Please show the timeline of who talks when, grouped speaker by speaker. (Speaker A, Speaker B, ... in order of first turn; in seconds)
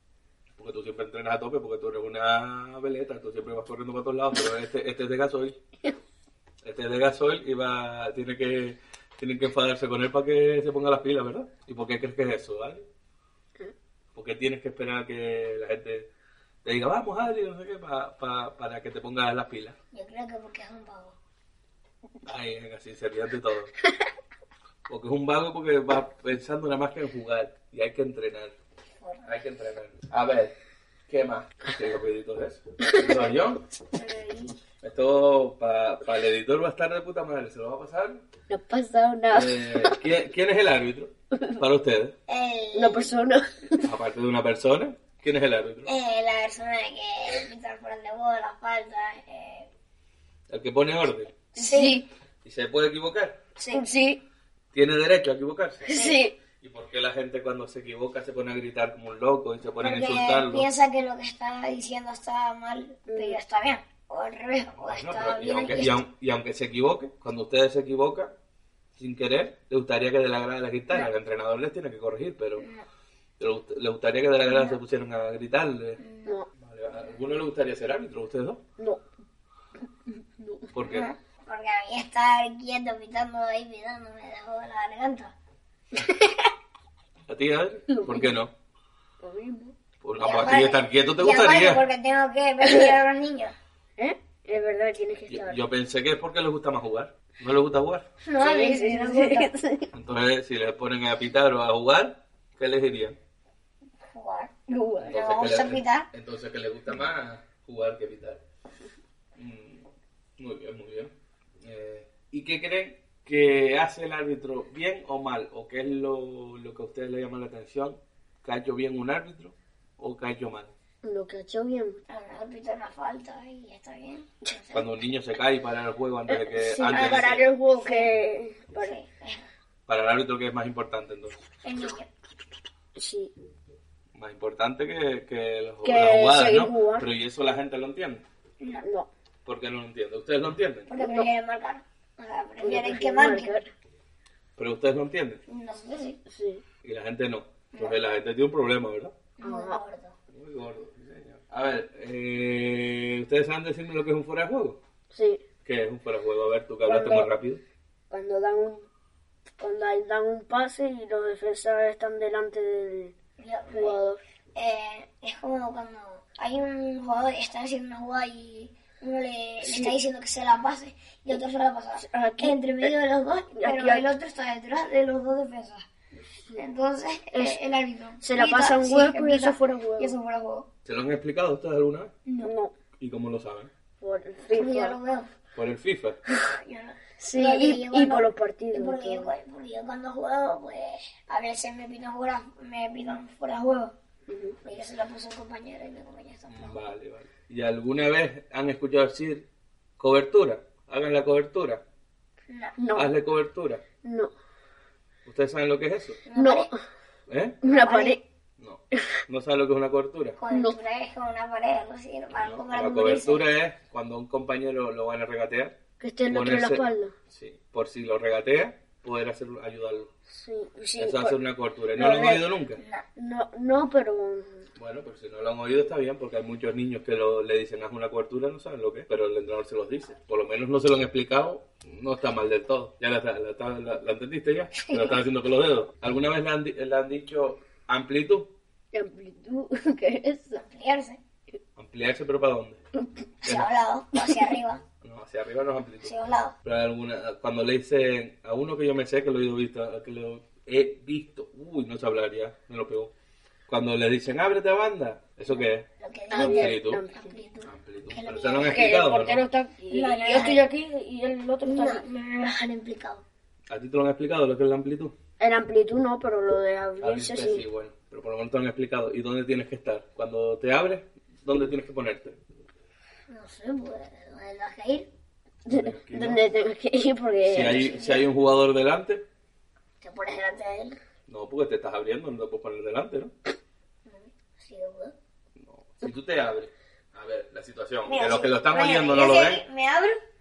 Speaker A: 0.6-5.6, 6.6-12.9, 14.1-16.1, 16.6-19.8, 22.2-23.7, 24.9-28.5, 29.2-30.5, 31.1-33.6, 34.8-38.2, 39.3-42.1, 43.8-45.9, 50.5-51.3, 52.4-53.4, 54.7-55.9, 56.6-60.7, 64.8-68.3, 69.0-72.7, 73.4-76.0, 76.6-78.6, 80.7-81.1, 87.3-88.5, 90.0-91.8, 95.3-98.1, 99.9-103.2, 105.0-108.4, 109.4-109.9, 110.4-111.1, 111.6-120.7, 124.7-127.5, 129.9-131.4, 134.1-138.2, 139.4-140.9, 144.6-145.4, 146.8-149.1, 150.3-154.8, 155.6-157.6, 180.9-182.1, 183.0-183.7, 185.5-186.2, 196.5-199.5, 200.0-201.8, 202.9-203.8, 205.2-206.2, 207.3-207.6, 208.6-210.4, 212.4-215.8, 216.3-220.1, 221.0-222.8, 224.8-238.5, 241.8-242.8, 245.0-246.1, 246.6-253.1, 253.7-257.0, 257.6-259.4, 263.7-265.1, 267.0-272.4, 275.7-276.4, 277.4-279.2, 281.3-283.3, 285.6-289.6
Speaker B: 19.9-21.1, 29.0-29.4, 33.9-34.5, 42.3-43.1, 45.9-49.7, 51.6-52.0, 53.6-53.8, 55.9-56.2, 59.8-66.0, 72.6-72.8, 74.5-74.8, 76.0-76.4, 80.8-85.3, 86.0-86.2, 90.2-93.5, 98.2-99.5, 104.1-106.1, 122.1-124.9, 126.8-128.1, 128.8-129.4, 131.6-132.1, 138.6-138.8, 140.9-143.6, 145.5-146.2, 149.4-150.1, 163.4-164.0, 164.5-175.8, 176.5-180.7, 182.2-182.5, 184.5-185.3, 186.5-193.9, 194.6-196.8, 202.5-202.8, 206.2-206.7, 207.6-208.2, 210.4-213.5, 222.8-223.0, 234.9-235.2, 240.6-241.2, 243.4-244.8, 246.0-246.6, 256.0-259.0, 259.9-260.6, 261.6-263.2, 273.3-275.1, 277.5-278.2, 280.0-281.0, 284.1-285.1, 288.1-290.2
Speaker C: 38.5-40.0, 42.8-43.9, 51.5-52.1, 53.7-54.2, 55.9-56.3, 63.1-63.4, 80.1-80.8, 87.9-88.3, 89.2-89.7, 92.6-92.9, 94.0-95.6, 98.4-99.9, 104.7-105.1, 121.0-122.0, 126.3-128.9, 132.9-133.3, 135.8-137.1, 138.8-139.1, 141.0-141.3, 142.6-143.7, 146.2-146.6, 149.4-149.8, 155.1-155.4, 156.8-157.3, 158.1-158.9, 159.6-163.1, 163.7-164.2, 169.6-169.9, 172.0-172.9, 173.5-174.1, 177.3-177.6, 178.2-180.1, 182.4-182.7, 184.0-184.9, 187.2-189.3, 194.3-194.6, 202.8-203.1, 204.0-204.3, 206.3-206.8, 207.6-208.2, 210.5-210.8, 216.0-217.1, 220.3-221.4, 221.9-222.4, 223.2-224.7, 238.9-240.6, 256.3-257.4, 258.6-262.0, 265.4-267.6, 275.6-277.9